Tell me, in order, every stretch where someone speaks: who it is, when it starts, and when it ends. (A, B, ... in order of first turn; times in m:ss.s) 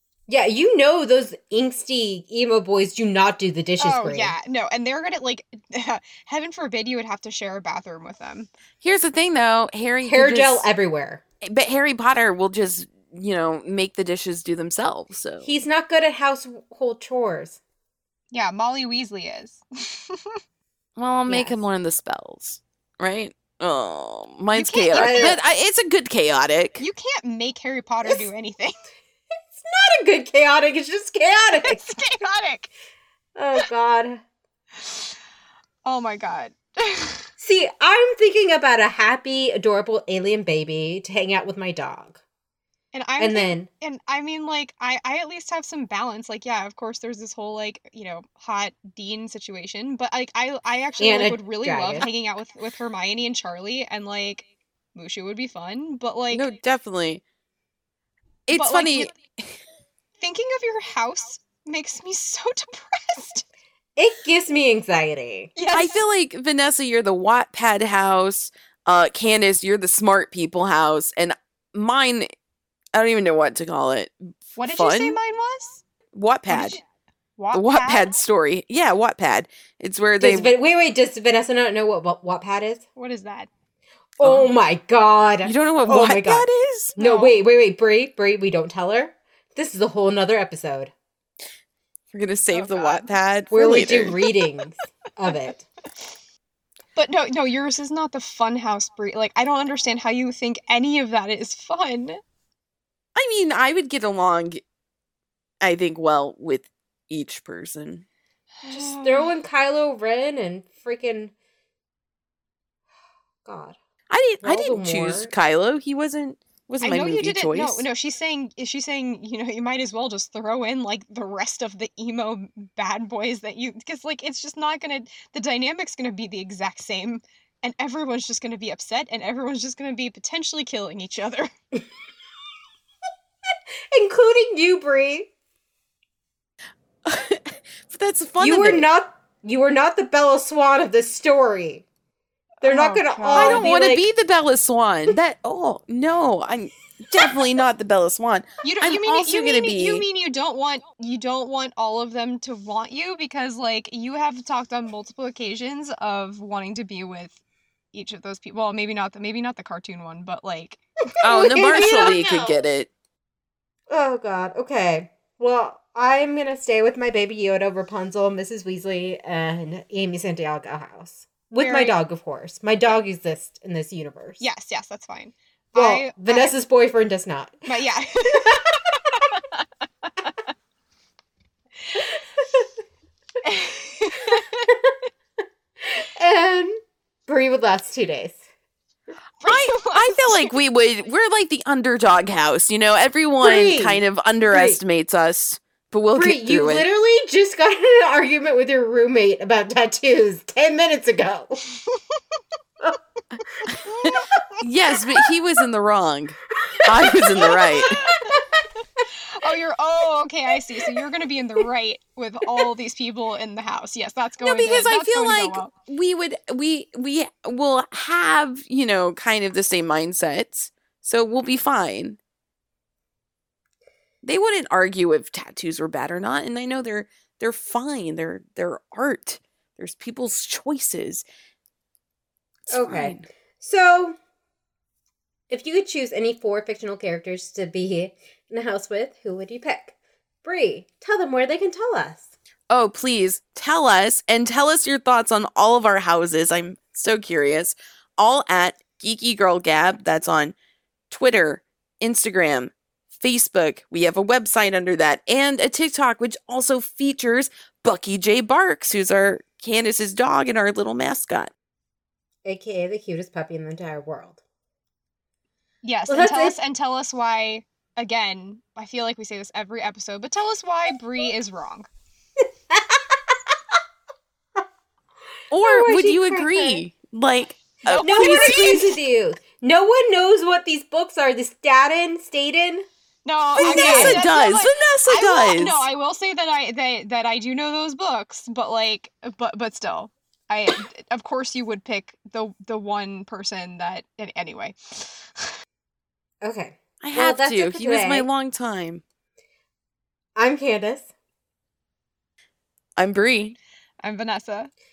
0:00.3-0:04.4 A
0:03.8-0:08.5 B
0:08.8-0:10.7 C
0:10.0-0:11.2 A
0:11.4-0:15.5 C
0:15.4-0:17.6 A
0:18.3-0:20.4 B
0:21.0-0:26.8 C
0:21.3-0:21.6 A
0:24.5-0:25.4 B
0:24.9-0:25.4 A
0:26.8-0:28.8 B
0:29.5-0:31.9 A
0:31.6-0:32.7 B
0:33.4-0:34.2 A
0:34.8-0:35.2 B
0:35.8-0:37.3 B
0:37.4-0:42.2 A
0:42.9-0:56.5 B
0:43.2-0:43.7 A
0:51.0-0:52.1 A
0:56.3-0:57.2 C
0:58.5-0:59.2 C
0:58.5-0:59.1 B
1:00.2-1:03.5 B
1:04.0-1:05.5 A
1:05.6-1:06.0 B
1:05.7-1:12.3 C
1:13.0-1:15.2 C
1:14.6-1:15.8 B
1:16.1-1:16.8 C
1:16.5-1:16.8 B
1:17.4-1:18.2 B
1:17.5-1:20.5 C
1:20.2-1:22.8 A
1:23.0-1:23.5 B
1:24.2-1:30.9 A
1:24.2-1:24.5 C
1:25.4-1:27.0 C
1:27.0-1:27.3 B
1:32.1-1:34.2 C
1:32.5-1:33.7 B
1:33.5-1:35.6 A
1:37.0-1:42.2 B
1:43.2-1:44.6 C
1:45.6-1:48.0 C
1:48.6-1:49.3 B
1:48.7-1:51.3 A
1:53.4-1:53.8 A
1:54.1-1:57.9 C
1:54.4-1:55.3 A
1:56.8-2:11.5 B
2:13.9-2:15.3 A
2:17.0-2:18.9 C
2:18.4-2:21.9 A
2:22.6-2:23.7 B
2:22.6-2:24.1 A
2:23.3-2:30.0 C
2:28.6-2:37.4 B
2:37.9-2:40.8 B
2:41.2-2:42.6 A
2:41.2-2:42.9 C
2:41.8-2:42.1 B
2:43.9-2:54.4 A
2:51.6-2:52.0 B
2:54.4-2:56.5 B
2:55.8-2:57.7 A
2:57.7-3:00.3 B
2:58.3-2:59.2 A
3:02.0-3:02.7 A
3:03.4-3:04.7 B
3:05.8-3:08.4 A
3:09.4-3:10.5 B
3:09.5-3:16.9 C
3:13.4-3:14.8 A
3:16.2-3:21.6 A
3:21.9-3:22.2 B
3:23.8-3:24.2 B
3:24.6-3:28.0 C
3:26.9-3:28.6 A
3:27.5-3:28.3 B
3:29.1-3:35.7 B
3:34.4-3:42.2 C
3:44.2-3:51.2 C
3:52.7-3:53.3 C
3:52.7-3:54.2 A
3:55.5-4:02.3 A
4:02.7-4:10.5 C
4:11.1-4:21.5 C
4:22.4-4:24.4 A
4:25.8-4:31.9 B
4:26.1-4:26.6 A
4:32.7-4:33.4 A
4:35.5-4:38.8 C
4:35.5-4:36.8 A
4:37.9-4:38.9 B
4:37.9-4:42.9 A
4:43.2-4:55.5 B
4:43.6-4:44.2 A
4:43.6-4:45.9 C
4:56.4-4:58.3 A
4:57.0-4:59.0 C
5:00.4-5:01.1 A
5:03.0-5:03.6 C
5:04.0-5:04.7 B